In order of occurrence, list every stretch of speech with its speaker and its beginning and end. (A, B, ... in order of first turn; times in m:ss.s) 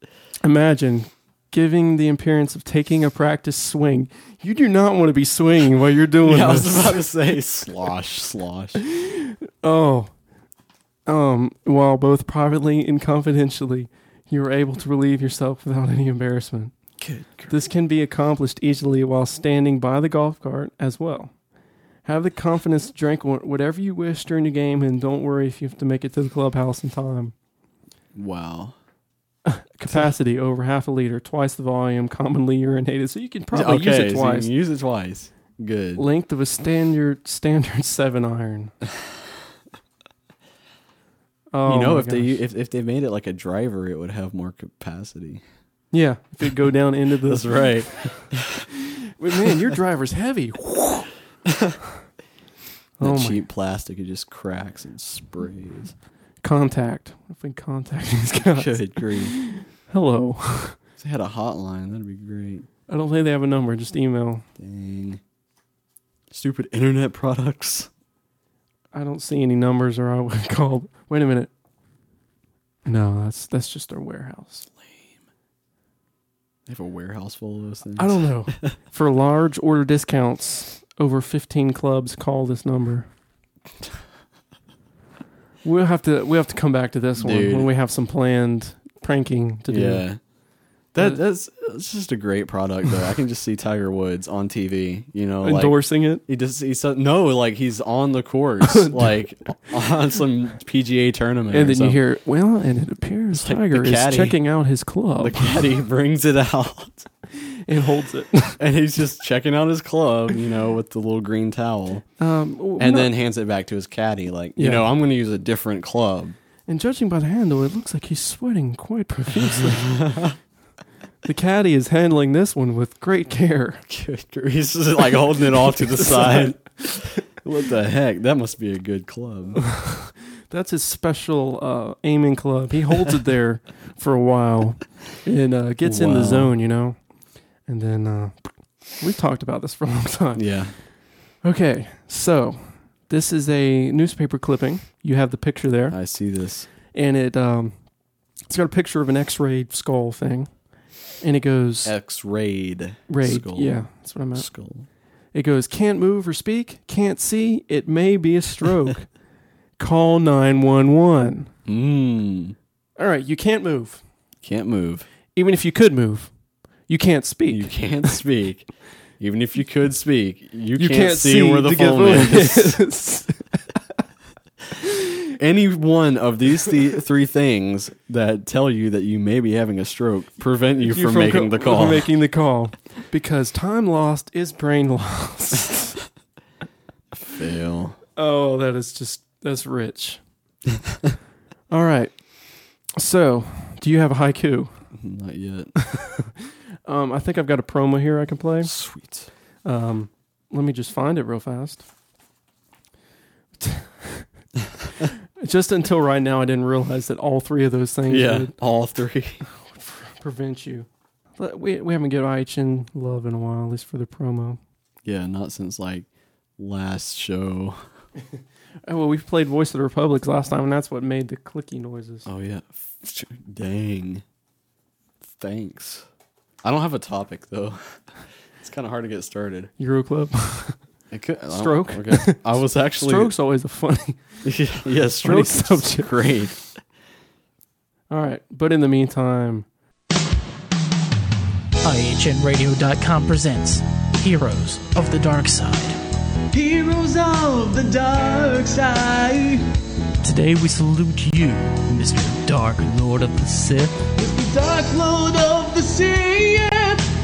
0:00.4-0:07.0 A
0:06.2-0:08.8 B
0:09.0-0:10.1 A
0:11.1-0:16.7 A
0:17.0-0:17.6 B
0:17.5-0:21.3 A
0:22.0-0:27.3 A
0:28.2-0:28.8 B
0:29.5-0:34.5 A
0:29.9-0:30.1 B
0:33.5-0:36.0 B
0:36.0-0:38.7 A
0:41.5-0:42.4 A
0:41.7-0:45.4 B
0:45.9-0:47.7 A
0:47.3-0:48.6 B
0:49.2-0:51.1 A
0:51.5-0:51.8 B
0:53.0-0:53.4 A
0:53.0-0:55.9 B
0:56.4-1:00.8 A
0:58.6-0:59.4 B
1:01.0-1:02.7 B
1:02.9-1:04.4 A
1:04.6-1:05.2 B
1:06.3-1:07.9 B
1:08.9-1:11.5 A
1:12.8-1:14.7 A
1:16.7-1:18.8 B
1:18.0-1:23.1 A
1:25.6-1:30.1 A
1:27.2-1:27.7 B
1:29.7-1:30.2 B
1:30.9-1:42.0 B
1:31.0-1:31.2 A
1:35.4-1:36.2 A
1:38.6-1:39.2 A
1:41.5-1:45.6 A
1:43.3-1:44.4 B
1:45.2-1:47.1 B
1:47.4-1:48.6 A
1:48.6-1:52.0 B
1:52.2-1:53.1 A
1:52.8-1:56.4 B
1:54.6-1:54.9 A
1:56.7-2:00.0 A
1:59.4-2:00.4 B
2:01.2-2:03.8 A
2:03.9-2:09.6 B
2:06.0-2:06.5 A
2:09.7-2:17.0 A
2:15.8-2:16.6 B
2:17.7-2:20.7 A
2:20.4-2:20.8 B
2:21.4-2:26.0 A
2:25.9-2:26.7 B
2:26.9-2:27.7 A
2:28.5-2:30.5 A
2:31.2-2:31.9 A
2:31.8-2:34.9 B
2:33.1-2:34.5 A
2:35.3-2:39.1 A
2:39.8-2:41.5 A
2:41.7-2:42.6 B
2:43.0-2:44.0 A
2:44.4-2:45.1 B
2:45.4-2:46.3 A
2:46.9-2:48.2 A
2:47.5-2:48.7 B
2:49.2-2:52.8 B
2:50.8-2:53.6 A
2:55.4-3:02.1 B
3:00.9-3:05.9 A
3:07.1-3:08.0 B
3:08.2-3:10.2 A
3:11.7-3:12.2 A
3:13.0-3:14.8 A
3:14.9-3:15.8 B
3:16.9-3:18.7 A
3:18.6-3:19.3 B
3:19.6-3:21.8 A
3:23.6-3:24.3 A
3:25.4-3:28.5 A
3:28.1-3:29.4 B
3:29.7-3:34.6 A
3:35.0-3:36.1 B
3:36.6-3:37.8 B
3:38.9-3:42.3 A
3:42.2-3:44.2 B
3:45.2-3:46.1 B
3:46.6-3:48.0 B
3:48.6-3:49.7 B
3:49.8-3:50.8 A
3:51.1-3:53.3 B
3:51.5-3:52.4 A
3:52.9-3:54.2 A
3:54.4-3:56.6 B
3:55.2-3:56.1 A
3:58.1-3:59.7 A
4:01.8-4:06.0 C
4:06.5-4:09.6 D
4:10.2-4:14.1 C
4:14.2-4:17.0 D